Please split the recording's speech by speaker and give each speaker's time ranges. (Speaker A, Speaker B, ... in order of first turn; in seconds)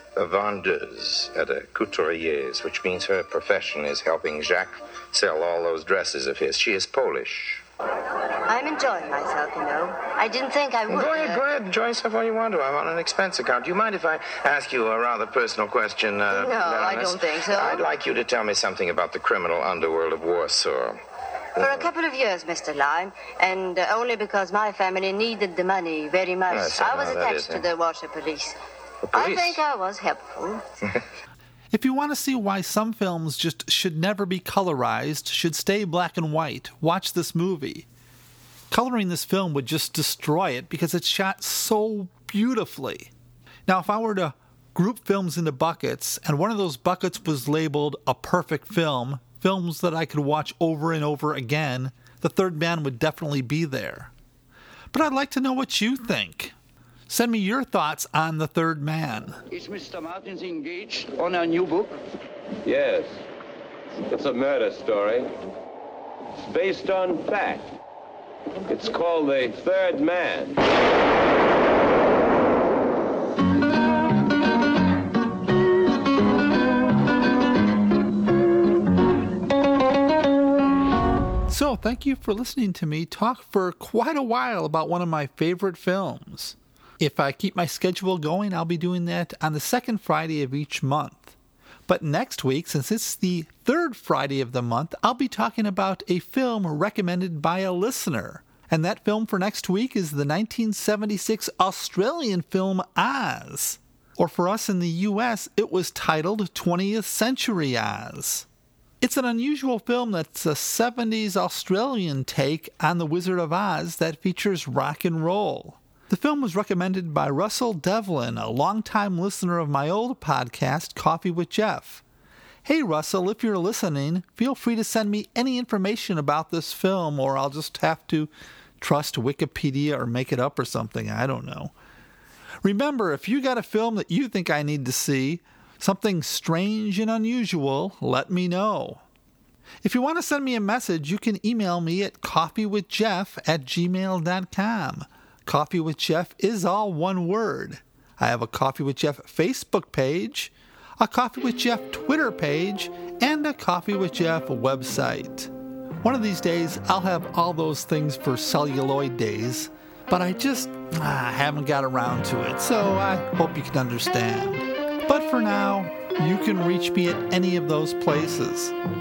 Speaker A: 0.1-7.6, 10.9-20.9, 21.6-21.9, 26.5-27.6, 29.0-29.6
Speaker B: 8.5-11.4, 16.3-17.9, 21.6-28.6, 29.1-30.6
Speaker C: 31.7-37.9, 38.7-43.1, 43.7-54.1, 54.9-56.5, 57.1-59.4, 81.5-91.3, 91.9-108.5, 109.0-122.0, 122.6-131.7, 132.6-139.0, 139.8-155.5, 156.0-168.7
Speaker D: 59.5-62.0
Speaker E: 62.6-63.2, 64.1-65.3, 66.4-67.7, 68.7-70.6